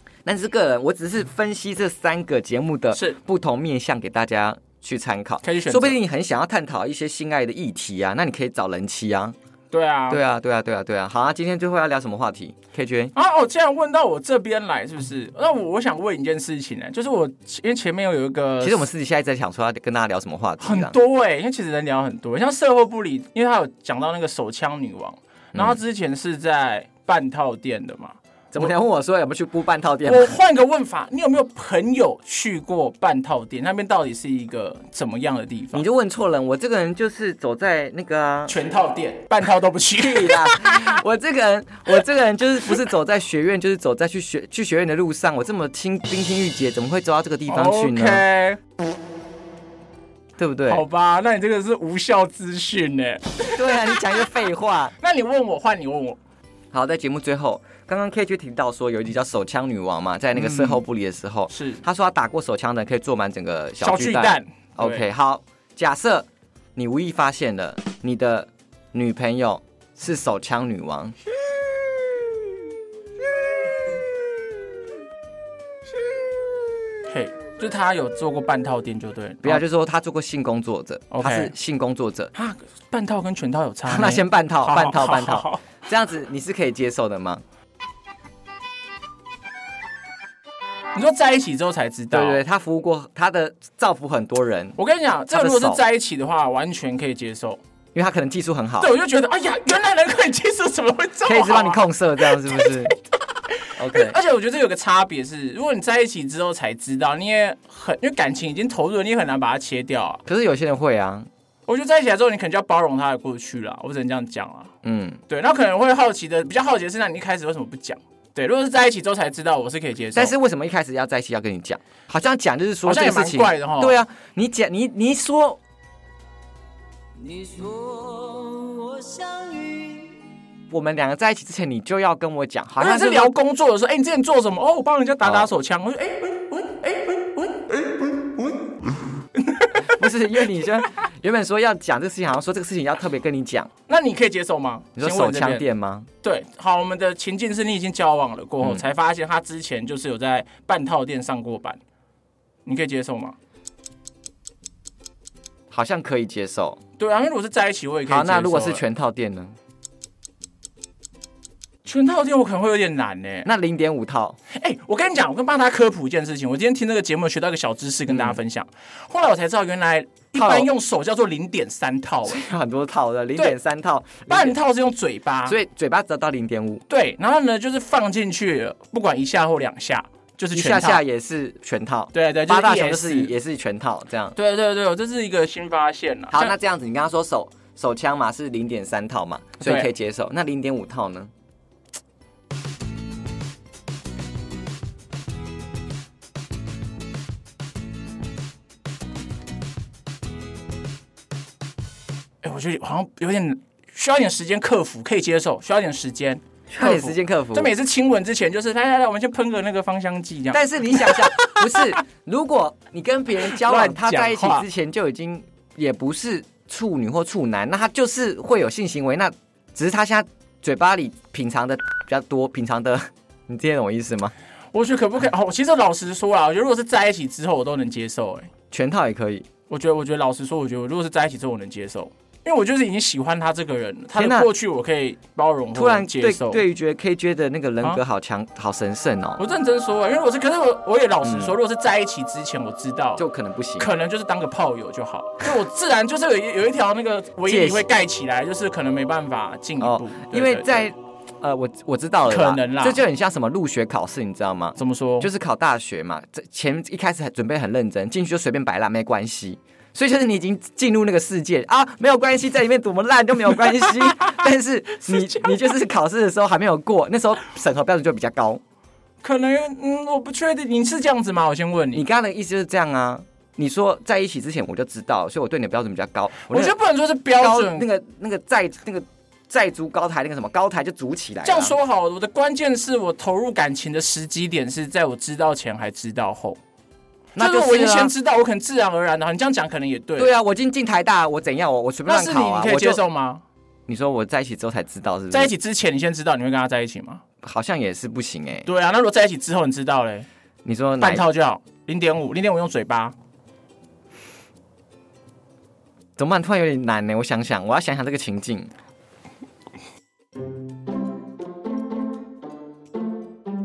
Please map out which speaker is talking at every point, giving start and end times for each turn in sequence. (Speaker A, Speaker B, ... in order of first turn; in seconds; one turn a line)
Speaker A: 0.2-9.3
Speaker B: 2.9-3.2
Speaker B: 5.4-6.0
Speaker B: 9.7-10.2
Speaker A: 10.1-13.1
Speaker B: 13.1-18.9
Speaker A: 18.6-20.9
Speaker B: 20.6-28.7
Speaker A: 25.5-25.8
Speaker A: 28.5-30.3
Speaker B: 30.0-35.8
Speaker A: 35.7-38.5
Speaker B: 38.5-41.0
Speaker A: 40.0-48.2
Speaker B: 47.5-48.6
Speaker A: 50.4-50.8
Speaker B: 50.7-54.2
Speaker A: 53.5-54.9
Speaker B: 55.0-56.2
Speaker A: 56.7-71.1
Speaker B: 60.3-60.8
Speaker B: 61.5-61.8
Speaker B: 63.8-65.0
Speaker B: 77.1-79.6
Speaker A: 79.4-82.3
Speaker B: 81.1-81.5
Speaker B: 82.3-85.6
Speaker A: 83.9-87.4
Speaker B: 90.9-92.4
Speaker A: 92.1-94.8
Speaker B: 94.8-97.6
Speaker A: 95.3-95.8
Speaker A: 97.9-98.9
Speaker B: 98.8-102.7
Speaker A: 101.2-102.9
Speaker A: 103.8-104.2
Speaker B: 103.9-110.2
Speaker A: 110.2-111.3
Speaker B: 111.7-114.7
Speaker A: 114.8-115.2
Speaker B: 115.3-120.3
Speaker A: 120.1-125.6
Speaker B: 122.8-124.0
Speaker C: 127.2-130.2
Speaker A: 130.7-133.3
Speaker B: 132.8-138.5
Speaker A: 135.2-135.5
Speaker B: 139.3-140.0
Speaker A: 139.9-143.7
Speaker B: 143.9-145.6
Speaker A: 144.9-146.1
Speaker B: 146.2-151.8
Speaker B: 152.6-153.3
Speaker A: 155.7-156.8
Speaker B: 157.0-158.8
Speaker A: 158.1-159.5
Speaker B: 161.8-163.5
Speaker A: 163.4-164.4
Speaker B: 164.5-172.4
Speaker A: 168.1-168.4
Speaker A: 170.3-170.7
Speaker A: 172.2-174.6
Speaker B: 174.3-175.6
Speaker A: 175.4-176.8
Speaker B: 176.9-181.0
Speaker A: 180.5-184.3
Speaker B: 182.1-183.3
Speaker B: 184.3-186.5
Speaker A: 186.3-191.3
Speaker B: 189.6-189.9
Speaker B: 202.4-211.9
Speaker A: 206.7-207.7
Speaker A: 210.5-224.3
Speaker B: 213.4-214.7
Speaker B: 224.7-228.5
Speaker A: 228.7-229.5
Speaker B: 229.7-236.6
Speaker A: 234.1-234.5
Speaker A: 235.7-239.4
Speaker B: 239.4-243.2
Speaker A: 241.2-241.5
Speaker A: 243.2-243.9
Speaker B: 243.8-250.9
Speaker A: 247.4-247.9
Speaker A: 249.8-268.6
Speaker B: 252.3-253.0
Speaker B: 254.8-255.3
Speaker B: 265.1-265.6
Speaker B: 269.2-272.1
Speaker A: 271.9-276.8
Speaker B: 276.4-277.9
Speaker A: 277.3-281.8
Speaker B: 281.4-286.6
Speaker A: 287.3-288.1
Speaker B: 287.4-290.3
Speaker A: 290.1-293.0
Speaker B: 292.1-293.4
Speaker A: 293.9-295.5
Speaker B: 295.3-297.2
Speaker A: 297.4-298.7
Speaker B: 298.6-300.3
Speaker A: 300.6-301.2
Speaker B: 301.0-303.1
Speaker A: 306.2-308.7